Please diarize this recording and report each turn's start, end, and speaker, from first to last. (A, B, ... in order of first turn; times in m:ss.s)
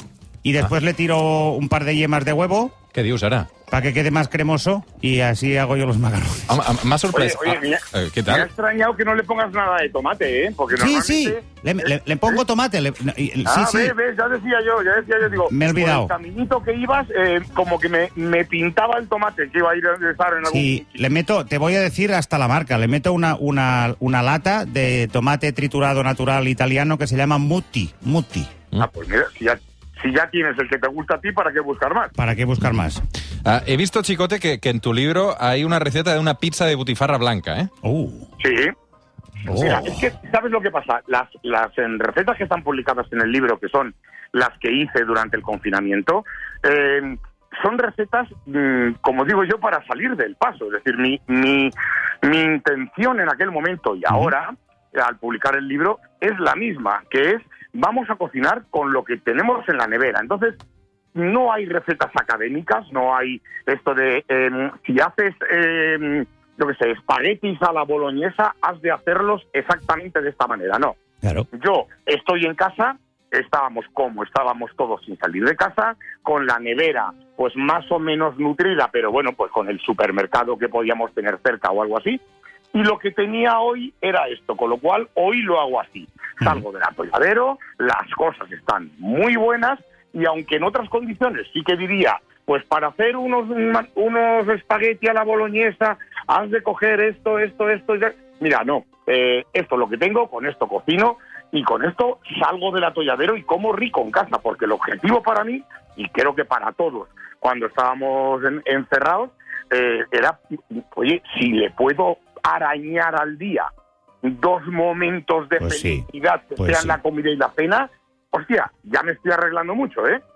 0:00.4-0:02.8 A
0:02.9-0:03.5 B
0:03.7-0:06.6 A
0:06.5-0:08.5 B
0:07.1-0:11.4 C
0:10.7-0:14.0 A
0:13.5-0:20.8 C
0:15.5-0:16.1 A
0:20.4-0:28.5 A
0:28.8-0:32.1 C
0:32.2-0:33.0 A
0:33.4-0:37.7 B
0:37.8-0:38.3 A
0:38.4-0:38.7 C
0:39.5-0:40.0 A
0:39.5-1:00.6 C
1:01.2-1:11.0 C
1:11.2-1:11.5 A
1:11.5-1:22.2 C
1:22.7-1:53.7 C
1:54.2-2:00.2 C
1:55.6-1:56.1 A
1:56.6-1:57.0 A